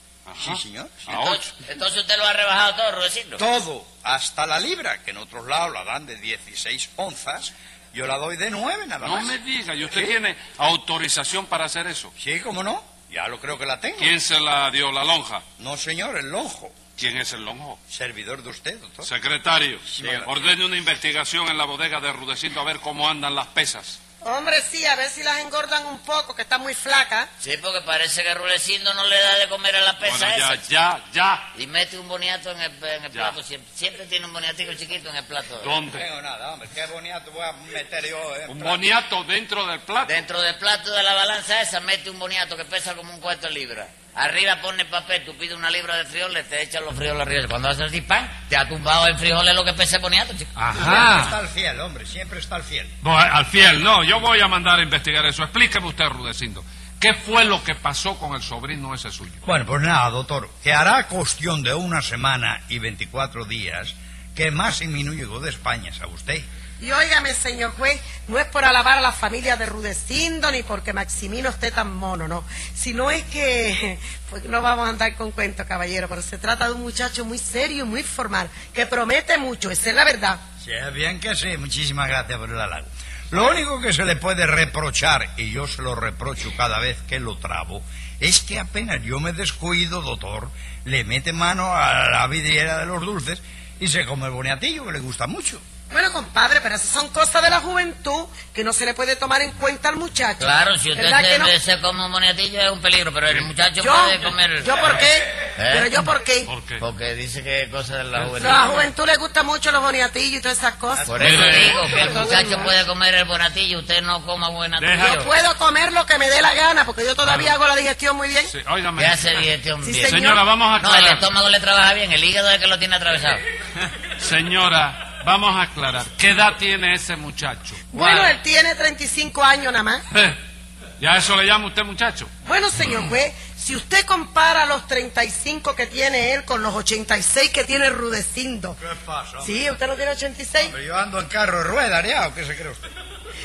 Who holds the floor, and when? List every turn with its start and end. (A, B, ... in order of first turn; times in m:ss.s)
0:00.3-0:01.5 A
0:00.4-0:01.1 B
0:01.1-0:03.4 C
0:03.4-0:09.4 B
0:09.0-0:12.1 A
0:12.2-0:14.1 B
0:14.0-0:15.4 A
0:15.6-0:16.7 B
0:17.0-0:17.8 A
0:17.9-0:19.1 B
0:19.0-0:24.0 A
0:19.9-0:20.4 B
0:24.2-0:27.3 D
0:27.4-0:30.6 C
0:30.0-0:31.5 A
0:31.5-0:35.7 C
0:35.6-0:36.0 A
0:35.9-0:38.8 B
0:38.5-0:40.2 A
0:40.0-0:50.5 C
0:50.6-0:51.4 A
0:50.7-0:52.9 B
0:53.0-0:59.4 A
0:59.4-1:06.4 B
1:06.8-1:20.4 D
1:20.6-1:35.6 B
1:35.9-1:41.5 D
1:40.4-1:44.9 C
1:43.8-1:46.5 D
1:45.5-1:46.0 C
1:46.4-1:46.8 A
1:46.8-1:48.7 C
1:48.4-1:52.7 D
1:51.0-1:55.3 C
1:51.2-1:52.2 A
1:54.8-1:55.3 A
1:55.0-1:58.5 D
1:57.2-1:57.5 A
1:58.4-1:59.4 A
1:59.0-2:03.4 C
1:59.8-2:00.4 D
2:00.1-2:01.2 A
2:04.2-2:08.3 A
2:07.9-2:10.0 D
2:10.1-2:10.4 A
2:11.0-2:12.3 A
2:12.4-2:18.8 D
2:18.8-2:19.6 B
2:19.4-2:20.7 D
2:20.6-2:22.8 B